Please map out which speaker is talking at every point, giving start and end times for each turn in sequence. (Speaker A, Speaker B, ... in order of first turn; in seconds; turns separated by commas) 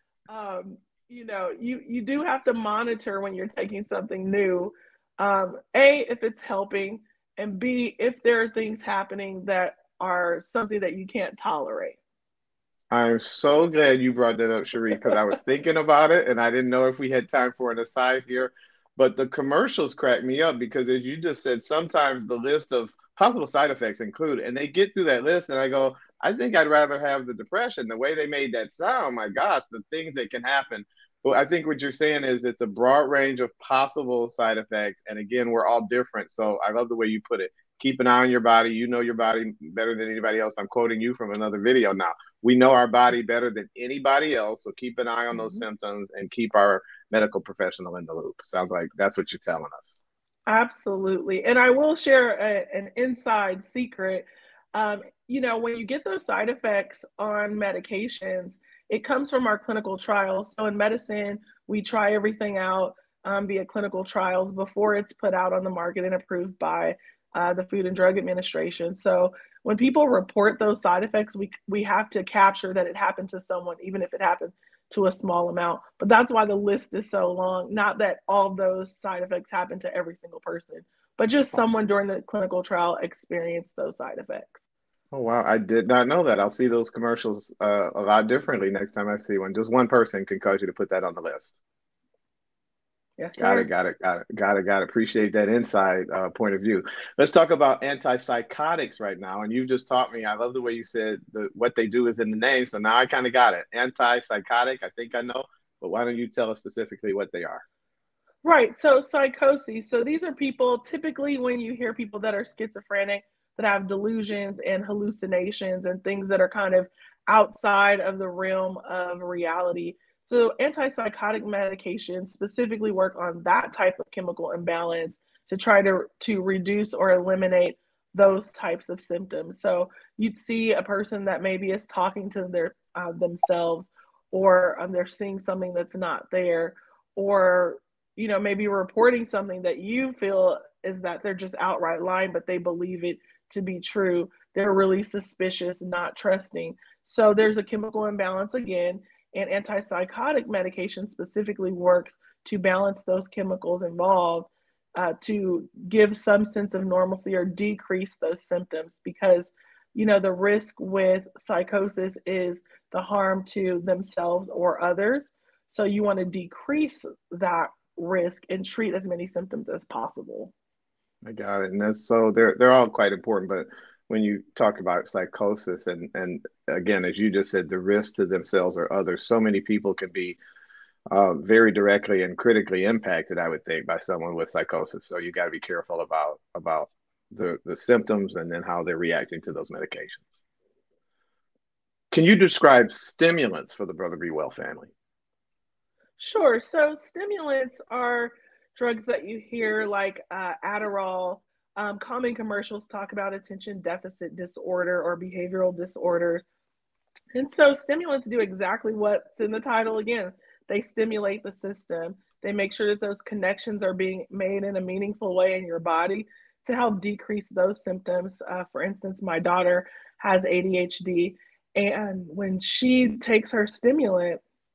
Speaker A: 0.3-12.0, Speaker B: 12.9-50.0, Speaker A: 45.3-45.6, Speaker A: 50.5-84.6, Speaker B: 85.1-91.6, Speaker A: 93.2-93.7, Speaker B: 93.4-107.6, Speaker A: 108.4-170.5, Speaker B: 171.2-180.4, Speaker B: 181.1-190.4, Speaker B: 192.1-194.9, Speaker A: 196.2-206.5, Speaker A: 207.3-224.4